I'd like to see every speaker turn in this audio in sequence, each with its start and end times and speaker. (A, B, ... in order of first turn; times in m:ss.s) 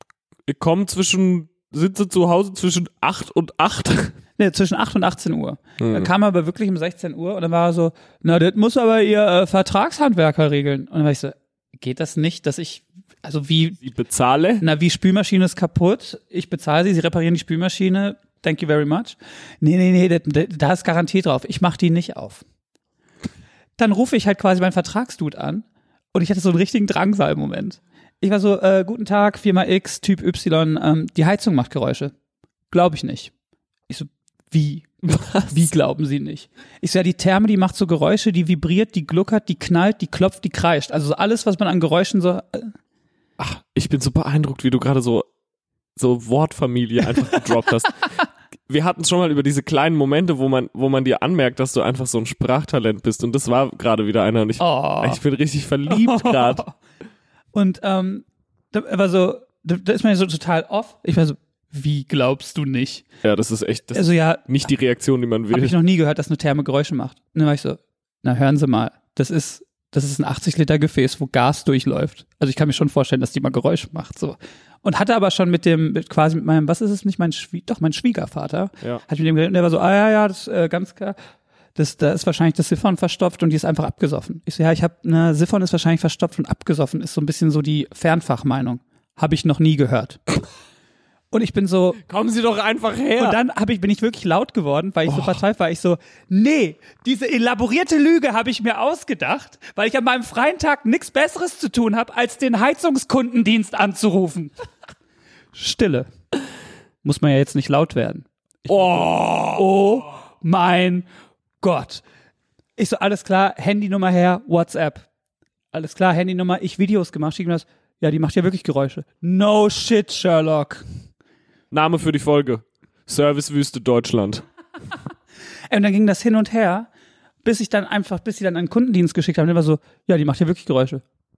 0:00.5-0:04.2 A
0:04.4-0:13.8 B
0:05.8-0:06.1 A
0:13.8-0:14.6 A
0:14.6-0:22.4 B
0:23.8-0:32.1 B
0:32.7-0:33.3 B
0:33.9-0:34.9 B
0:35.0-0:35.7 A
0:35.5-0:42.7 B
0:43.4-0:45.3 A
0:46.0-0:48.1 A
0:48.7-0:56.6 A
0:54.6-0:55.2 B
0:55.9-0:56.8 B
0:57.5-1:03.0 B
1:03.2-1:05.8 A
1:03.9-1:04.5 B
1:05.5-1:21.2 B
1:21.8-1:30.2 B
1:31.3-1:32.0 B
1:32.0-1:33.4 A
1:33.2-1:44.5 B
1:35.1-1:35.4 A
1:45.5-1:46.1 B
1:47.0-1:51.1 B
1:48.7-1:49.7 A
1:51.6-1:52.0 B
1:52.8-1:55.1 B
1:55.7-2:00.8 B
2:01.7-2:04.4 A
2:05.7-2:06.9 B
2:07.4-2:11.0 B